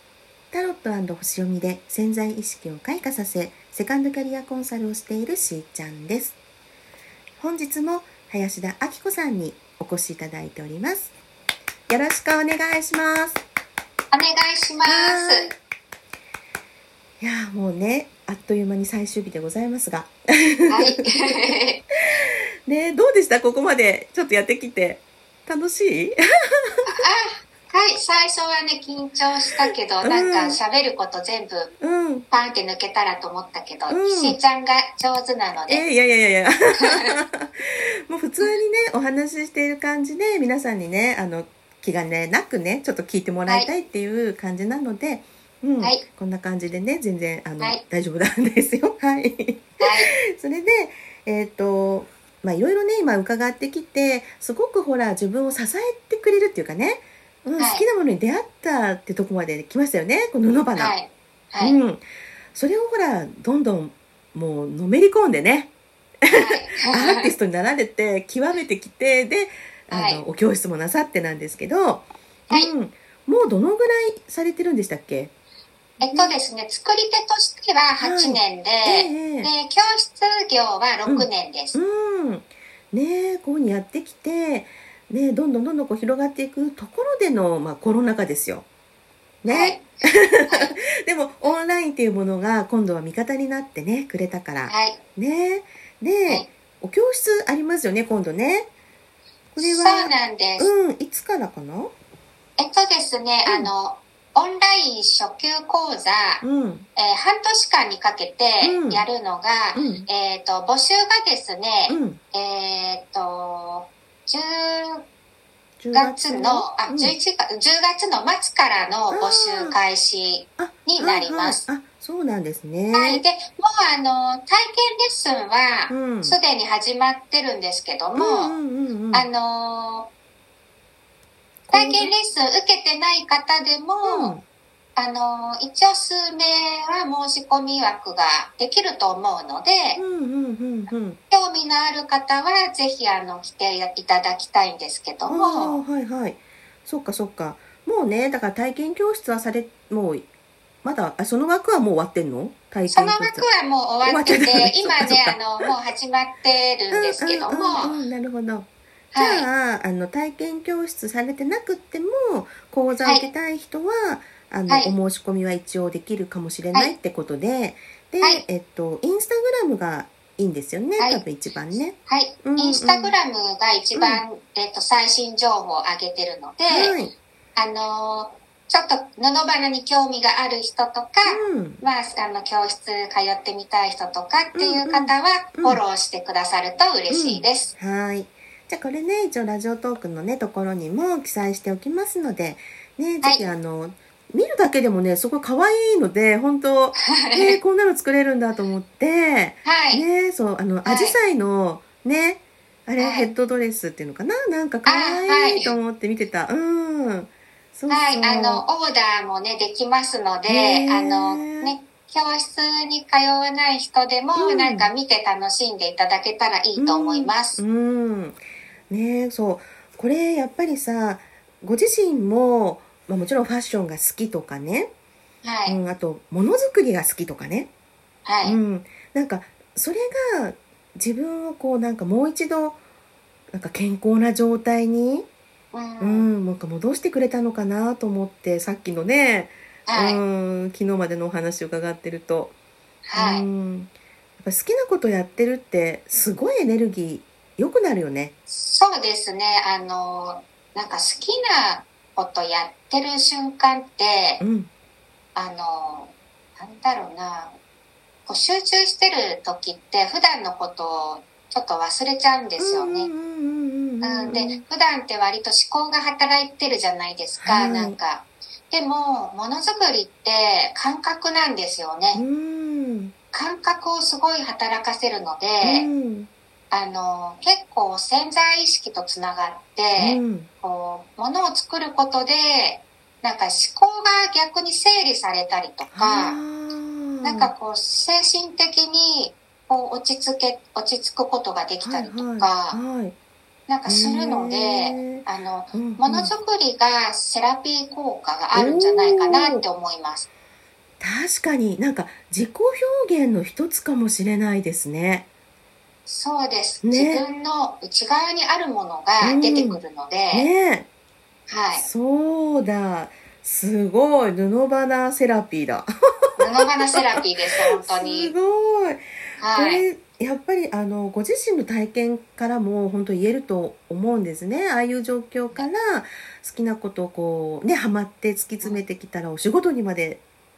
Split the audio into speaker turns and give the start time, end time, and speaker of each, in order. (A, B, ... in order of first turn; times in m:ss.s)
0:00.5-0:06.4 A
0:07.4-0:11.1 A
0:11.9-0:13.4 A
0:14.1-0:15.5 B
0:14.8-0:15.5 A
0:17.2-0:21.3 A
0:20.7-0:21.8 B
0:22.2-0:26.8 A
0:26.8-0:31.7 B
0:30.0-0:30.6 A
0:31.8-0:32.3 A
0:32.3-0:35.8 B
0:33.9-0:34.4 A
0:35.7-1:01.0 A
0:49.8-0:50.1 B
0:57.6-0:57.8 B
1:00.8-1:01.8 B
1:01.6-1:02.0 A
1:02.5-1:05.7 A
1:06.3-1:07.3 B
1:06.8-1:15.3 A
1:09.9-1:10.2 B
1:16.0-1:21.8 B
1:16.1-1:16.4 A
1:18.0-1:19.5 A
1:21.0-1:28.7 A
1:29.4-1:38.7 A
1:29.5-1:29.8 B
1:30.5-1:30.7 B
1:34.7-1:35.0 B
1:39.5-1:41.9 A
1:39.6-1:40.7 B
1:42.6-1:46.4 B
1:46.4-1:46.9 A
1:47.0-1:55.0 B
1:48.6-1:49.0 A
1:49.7-1:50.1 A
1:51.9-1:52.2 A
1:55.8-1:57.2 A
1:55.9-2:01.6 B
1:59.1-1:59.8 A
2:00.6-2:03.2 A
2:02.9-2:08.6 B
2:05.9-2:06.4 A
2:08.2-2:09.3 A
2:09.1-2:10.1 B
2:11.7-2:14.3 B
2:11.7-2:12.1 A
2:14.0-2:14.4 A
2:15.0-2:20.0 B
2:20.0-2:21.2 A
2:21.3-2:25.8 B
2:25.3-2:30.3 A
2:30.8-2:33.5 A
2:32.9-2:38.0 B
2:34.0-2:35.6 A
2:36.9-2:53.1 A
2:39.1-2:39.5 B
2:52.1-2:56.9 B
2:53.9-2:54.2 A
2:56.7-2:57.1 A
2:57.6-3:07.7 B
3:01.2-3:01.8 A
3:04.5-3:05.8 A
3:07.1-3:28.6 A
3:13.2-3:13.5 B
3:17.0-3:17.6 B
3:19.6-3:20.0 B
3:20.8-3:21.2 B
3:23.0-3:23.3 B
3:24.9-3:25.8 B
3:27.9-3:37.6 B
3:30.5-3:31.8 A
3:34.4-3:34.9 A
3:36.7-3:44.9 A
3:45.4-3:45.8 B
3:45.6-3:47.7 A
3:48.2-3:48.6 B
3:48.4-3:52.8 A
3:53.5-3:55.3 A
3:55.7-3:56.3 B
3:56.0-4:02.5 A
3:59.8-4:00.2 B
4:03.1-4:03.4 B
4:03.1-4:08.3 A
4:08.5-4:14.4 B
4:14.4-4:14.7 A
4:15.3-4:17.6 B
4:18.2-4:23.1 B
4:22.6-4:24.6 A
4:24.0-4:32.2 B
4:27.4-4:28.0 A
4:32.1-4:33.1 A
4:33.3-4:35.9 B
4:35.6-4:36.3 A
4:36.7-4:46.4 B
4:40.0-4:40.5 A
4:45.9-4:47.5 A
4:47.2-4:52.8 B
4:51.8-4:53.2 A
4:53.7-5:00.3 B
4:53.8-4:56.3 A
4:58.5-4:59.6 A
5:01.0-5:05.2 A
5:06.0-5:10.5 B
5:06.8-5:07.2 A
5:09.2-5:09.8 A
5:10.3-5:10.9 A
5:11.5-5:11.8 B
5:11.7-5:30.2 A
5:16.4-5:18.3 B
5:19.4-5:19.8 B